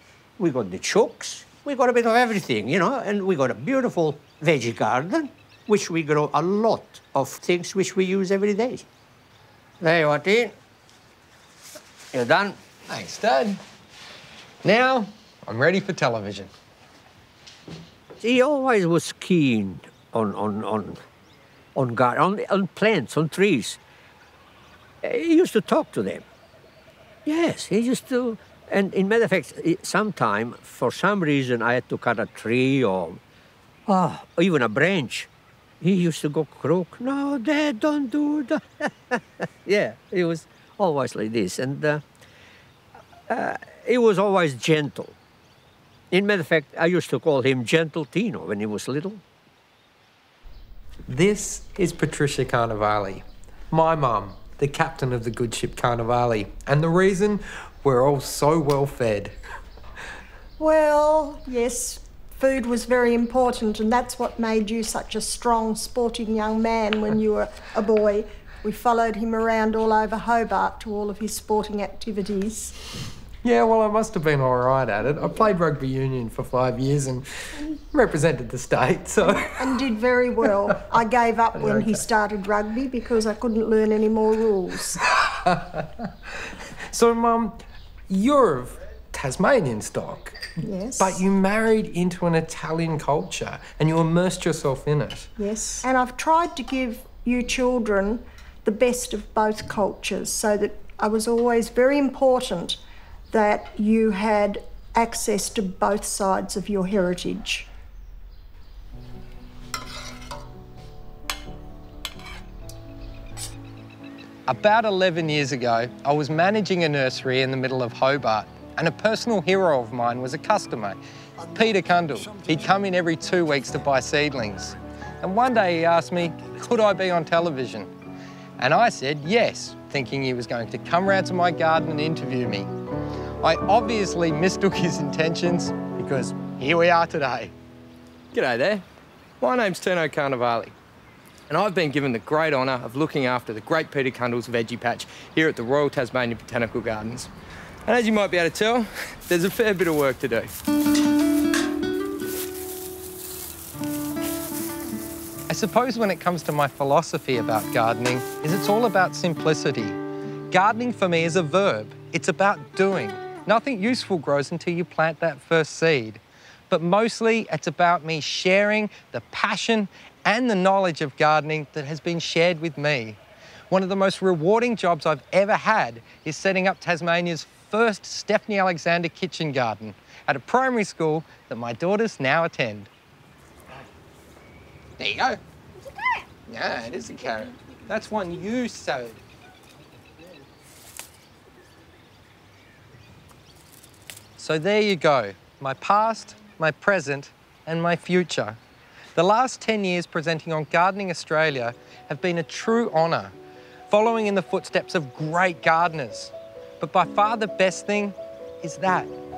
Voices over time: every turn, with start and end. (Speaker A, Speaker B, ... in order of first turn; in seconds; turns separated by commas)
Speaker A: 0.4-8.9, Speaker A: 9.8-10.5, Speaker A: 12.1-12.6, Speaker B: 12.9-13.6, Speaker B: 14.6-16.5, Speaker A: 18.2-21.0, Speaker A: 21.8-23.8, Speaker A: 25.0-26.2, Speaker A: 27.3-33.2, Speaker A: 33.9-35.3, Speaker A: 35.8-42.0, Speaker A: 43.3-45.2, Speaker A: 46.1-49.2, Speaker B: 51.1-59.3, Speaker C: 60.6-72.8, Speaker B: 73.4-77.3, Speaker B: 77.9-79.7, Speaker C: 79.4-85.0, Speaker B: 81.6-82.0, Speaker B: 85.5-86.1, Speaker B: 86.9-95.3, Speaker C: 90.6-91.2, Speaker C: 95.4-107.7, Speaker B: 114.5-121.0, Speaker B: 121.5-127.9, Speaker B: 128.6-132.7, Speaker B: 133.4-137.5, Speaker B: 138.3-138.8, Speaker B: 139.4-140.8, Speaker B: 141.5-147.3, Speaker B: 147.9-150.5, Speaker B: 155.5-160.0, Speaker B: 160.5-173.2, Speaker B: 173.7-182.9, Speaker B: 185.0-185.4, Speaker B: 186.5-189.2, Speaker B: 194.4-198.6, Speaker B: 199.2-203.3, Speaker B: 203.9-209.1